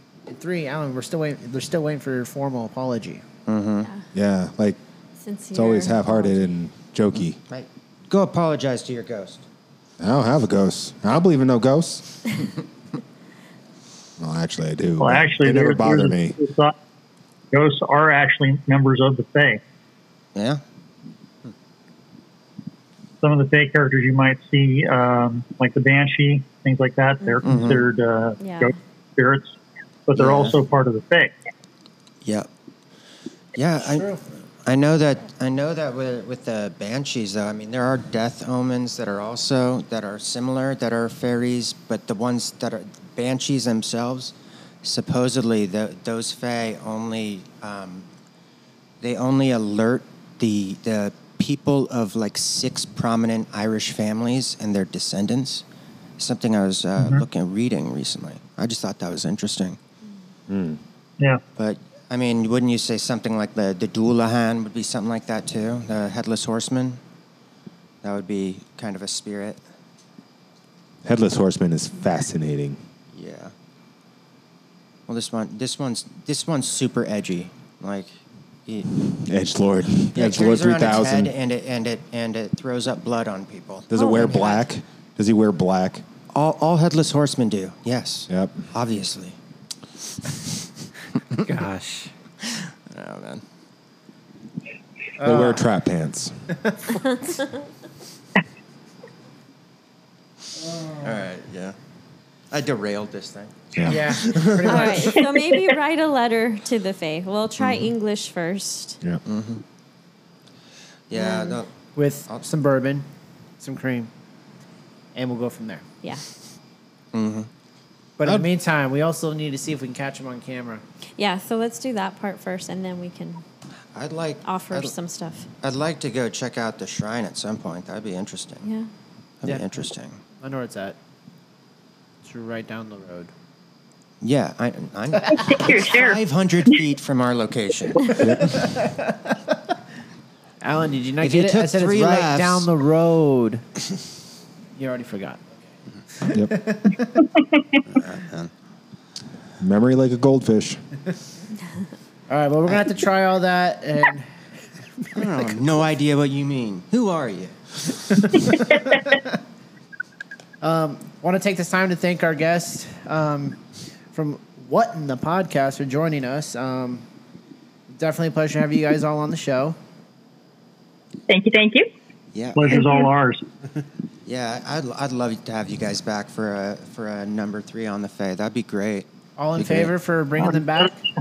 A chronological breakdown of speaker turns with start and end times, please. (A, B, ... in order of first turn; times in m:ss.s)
0:00.3-0:03.2 A
0:03.5-0:03.9 B
0:04.1-0:04.8 C
0:05.2-0:06.5 D
0:05.5-0:07.4 C
0:07.5-0:09.4 B
0:10.0-0:12.0 C
0:14.2-0:16.4 C
0:15.0-0:16.8 E
0:17.5-0:19.6 E
0:20.4-0:20.6 B
0:23.2-0:29.6 E
0:27.2-0:27.6 D
0:27.4-0:27.9 B
0:28.4-0:28.8 D
0:30.1-0:31.3 E
0:30.2-0:30.6 B
0:32.2-0:32.5 B
0:33.6-0:34.1 B
0:33.8-0:34.2 A
0:34.6-0:48.1 B
0:49.0-0:55.6 B
0:56.2-0:59.8 B
1:00.5-1:00.8 C
1:01.6-1:07.0 B
1:08.0-1:09.6 B
1:11.0-1:12.8 C
1:13.1-1:13.5 B
1:15.1-1:18.9 B
1:19.1-1:21.3 C
1:20.1-1:24.7 B
1:23.9-1:26.0 C
1:24.0-1:24.3 D
1:26.3-1:29.4 B
1:28.3-1:28.7 C
1:31.4-1:32.1 A
1:32.5-1:33.4 B
1:35.2-1:35.7 A
1:35.2-1:36.4 C
1:37.1-1:37.4 D
1:40.7-1:41.1 A
1:41.0-1:41.8 B
1:42.5-1:45.2 B
1:43.8-1:44.4 C
1:43.8-1:45.2 A
1:44.6-1:49.0 D
1:47.6-1:47.9 B
1:49.3-1:49.6 B
1:51.1-1:51.7 B
1:51.1-1:51.6 D
1:52.0-1:53.0 A
1:53.6-1:54.1 A
1:55.2-1:55.8 A
1:57.1-1:57.5 B
1:58.2-2:00.8 A
2:01.2-2:03.4 D
2:04.0-2:04.9 B
2:04.4-2:05.5 D
2:05.6-2:08.7 B
2:08.6-2:08.9 D
2:09.4-2:10.2 B
2:10.4-2:11.0 A
2:12.2-2:13.3 A
2:14.2-2:18.3 B
2:15.2-2:15.5 A
2:15.3-2:16.8 F
2:18.2-2:18.5 C
2:18.4-2:19.4 A
2:20.6-2:23.6 A
2:21.2-2:22.7 B
2:24.8-2:25.6 A
2:26.2-2:27.3 A
2:26.3-2:26.6 C
2:27.9-2:28.5 B
2:29.6-2:30.8 C
2:32.3-2:34.3 A
2:35.0-2:35.6 A
2:35.1-2:38.7 B
2:38.2-2:39.1 A
2:40.6-2:43.6 A
2:44.1-2:47.0 A
2:47.9-2:49.8 A
2:51.3-2:51.9 F
2:52.3-2:52.9 B
2:52.6-2:53.4 E
2:52.7-2:53.1 F
2:54.3-2:59.9 B
2:59.4-3:01.0 A